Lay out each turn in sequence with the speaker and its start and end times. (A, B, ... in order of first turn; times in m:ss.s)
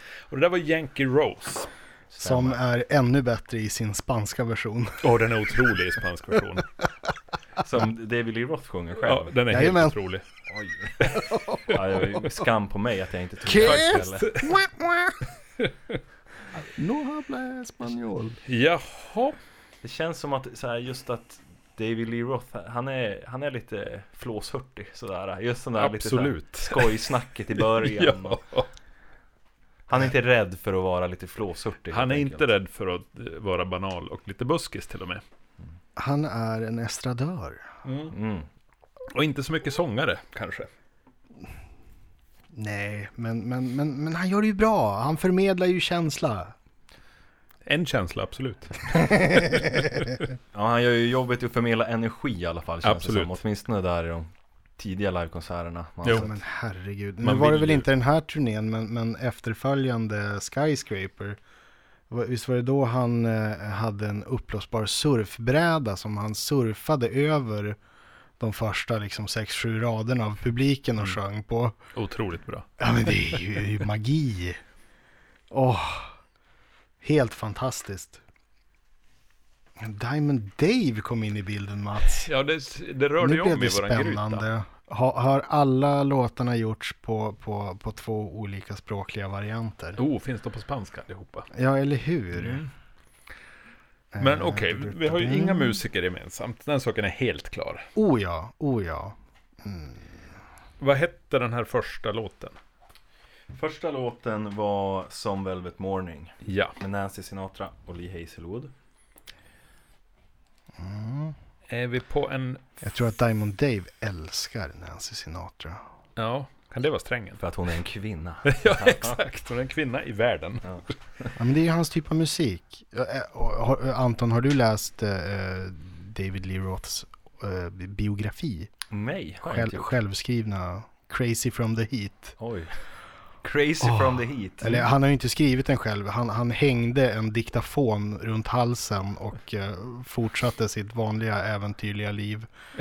0:00.3-0:01.7 A
0:02.1-0:02.6 B
0:02.2-0:05.2 C
0:05.0-0:06.7 A
0:07.6-0:09.4 B
0:09.0-0:10.2 A
0:09.5-0:10.0 C
0:10.5-0:11.1 B
0:11.1-0:11.8 C
0:11.6-0:14.3 B
0:13.4-0:15.2 C
0:13.6-0:14.6 A
0:15.6-0:16.0 A
0:16.6-0:18.4 C
0:18.4-0:19.4 A
0:19.8-0:28.4 B
0:25.8-0:28.7 A
0:29.9-0:32.4 B
0:31.9-0:35.2 A
0:36.0-0:37.7 C
0:37.8-0:38.1 A
0:38.1-0:38.5 B
0:39.1-0:40.7 A
0:42.5-0:46.5 C
0:47.6-0:50.2 A
0:49.0-0:49.8 C
0:50.5-0:56.3 B
0:52.8-0:53.4 A
0:56.1-1:01.4 C
0:57.2-0:57.8 A
1:02.1-1:07.8 C
1:08.4-1:11.8 C
1:11.9-1:12.7 A
1:12.8-1:14.6 C
1:15.5-1:16.2 C
1:17.0-1:18.2 C
1:19.8-1:22.3 C
1:22.1-1:24.4 A
1:23.2-1:30.0 C
1:30.0-1:31.5 A
1:31.5-1:32.6 C
1:32.3-1:32.7 A
1:34.1-1:35.8 C
1:34.2-1:37.9 A
1:38.0-1:40.2 C
1:40.8-1:42.6 A
1:43.5-1:48.7 B
1:46.4-1:46.8 A
1:50.8-1:51.4 C
1:51.7-1:52.6 A
1:52.8-1:55.8 C
1:56.2-1:57.4 A
1:57.4-1:59.2 B
1:58.4-2:00.8 A
2:00.7-2:01.3 B
2:01.4-2:08.7 C
2:08.9-2:09.9 B
2:09.4-2:12.3 C
2:12.4-2:12.8 B
2:13.4-2:14.9 B
2:13.8-2:22.5 C